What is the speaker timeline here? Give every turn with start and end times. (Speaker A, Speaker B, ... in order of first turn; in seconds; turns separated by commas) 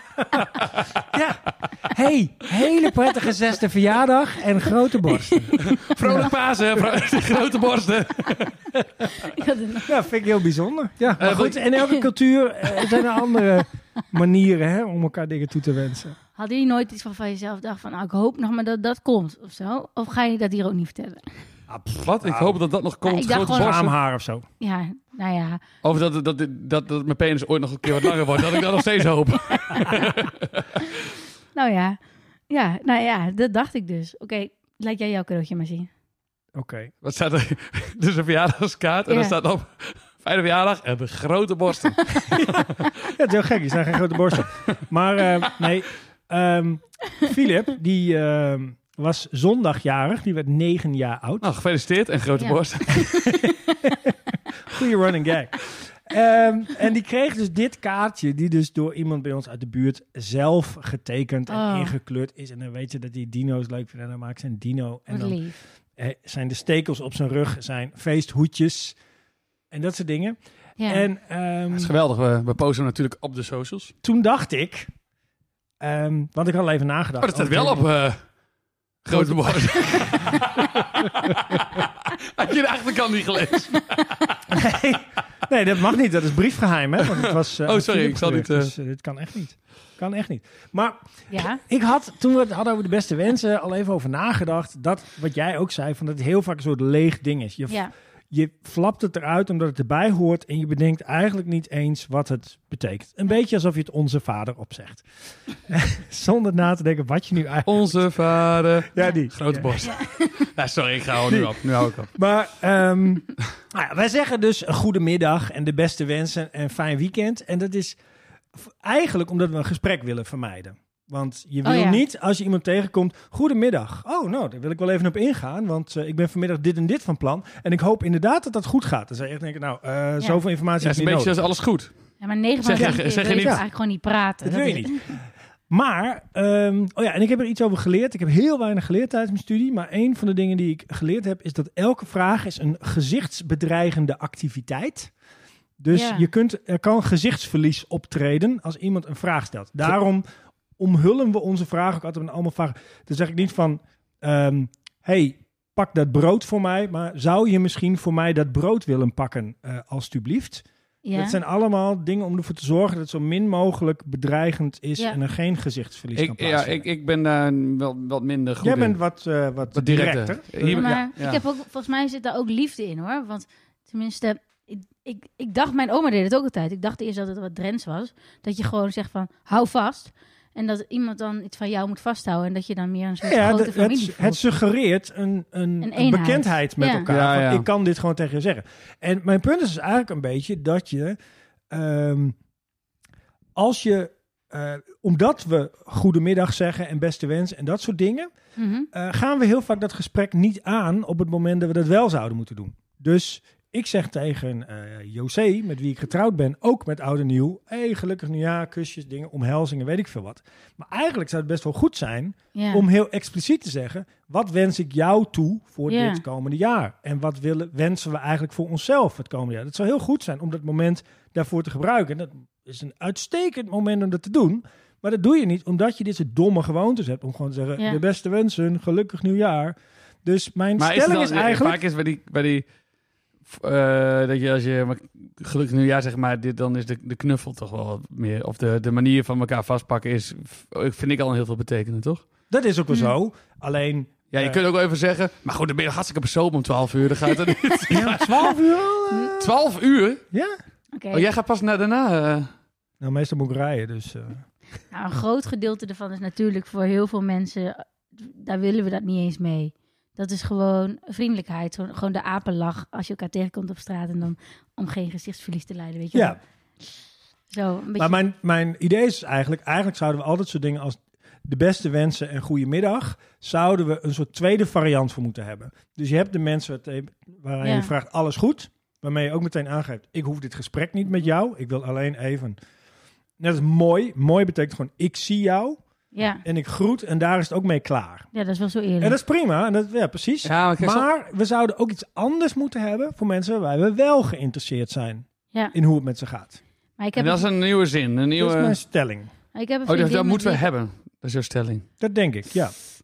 Speaker A: 0.6-0.8, Speaker B: 1.1-7.0, Speaker A: 5.6-8.5, Speaker C: 9.1-9.9, Speaker B: 9.8-16.1, Speaker A: 11.2-11.6, Speaker C: 13.0-13.2, Speaker C: 16.4-21.3, Speaker B: 21.7-22.6, Speaker A: 22.0-23.9, Speaker C: 23.1-23.9, Speaker B: 23.4-24.4, Speaker C: 24.6-25.6, Speaker A: 25.8-30.8, Speaker C: 29.6-29.9, Speaker C: 31.5-32.0, Speaker C: 32.5-35.9, Speaker B: 36.5-36.9, Speaker A: 37.0-42.6, Speaker C: 39.1-39.3, Speaker B: 42.2-51.5, Speaker A: 51.4-53.2, Speaker C: 52.4-53.7, Speaker B: 53.0-69.0, Speaker C: 61.5-61.9, Speaker C: 65.1-65.6, Speaker B: 69.7-71.9, Speaker C: 70.8-71.0, Speaker A: 71.7-73.9, Speaker B: 74.0-74.9, Speaker B: 75.8-77.9, Speaker A: 77.2-78.2, Speaker B: 79.0-80.6, Speaker A: 79.1-84.3, Speaker B: 84.5-105.0, Speaker A: 87.1-88.7, Speaker C: 91.3-91.6, Speaker B: 105.7-108.0, Speaker A: 107.7-112.1, Speaker B: 108.9-109.7, Speaker C: 109.8-110.3, Speaker B: 111.3-111.5, Speaker B: 112.1-118.0, Speaker B: 118.5-131.3, Speaker C: 121.6-122.0, Speaker A: 130.8-131.9, Speaker C: 132.2-134.9, Speaker A: 132.6-133.6, Speaker B: 132.8-133.6, Speaker B: 134.4-145.1, Speaker B: 145.8-150.2, Speaker C: 145.9-146.3, Speaker B: 150.8-166.8, Speaker C: 161.0-161.4, Speaker A: 166.2-169.0, Speaker B: 168.6-171.1, Speaker A: 169.7-171.4, Speaker C: 170.7-184.4, Speaker B: 183.2-191.2, Speaker C: 185.8-187.1, Speaker A: 187.1-187.7, Speaker B: 191.7-192.3, Speaker B: 193.6-198.3, Speaker C: 198.6-198.9, Speaker B: 198.9-231.8, Speaker C: 212.5-212.8, Speaker C: 215.9-216.2, Speaker A: 230.8-232.6, Speaker A: 233.4-242.2, Speaker B: 242.5-244.6, Speaker A: 244.3-248.6, Speaker B: 247.9-249.5, Speaker A: 249.4-250.2, Speaker B: 250.3-250.6, Speaker C: 250.9-251.2, Speaker A: 251.1-252.5, Speaker B: 253.0-254.4, Speaker C: 254.9-266.4, Speaker B: 266.1-266.4, Speaker C: 267.5-268.2, Speaker B: 268.0-282.6, Speaker C: 277.6-277.9, Speaker B: 283.4-285.8, Speaker C: 286.1-286.4, Speaker B: 286.4-288.3, Speaker C: 288.3-289.2, Speaker B: 289.0-296.6, Speaker A: 290.4-291.1, Speaker C: 297.0-297.4, Speaker A: 297.1-298.8, Speaker B: 298.4-299.3, Speaker C: 299.5-300.6, Speaker A: 299.9-301.9, Speaker B: 302.0-302.7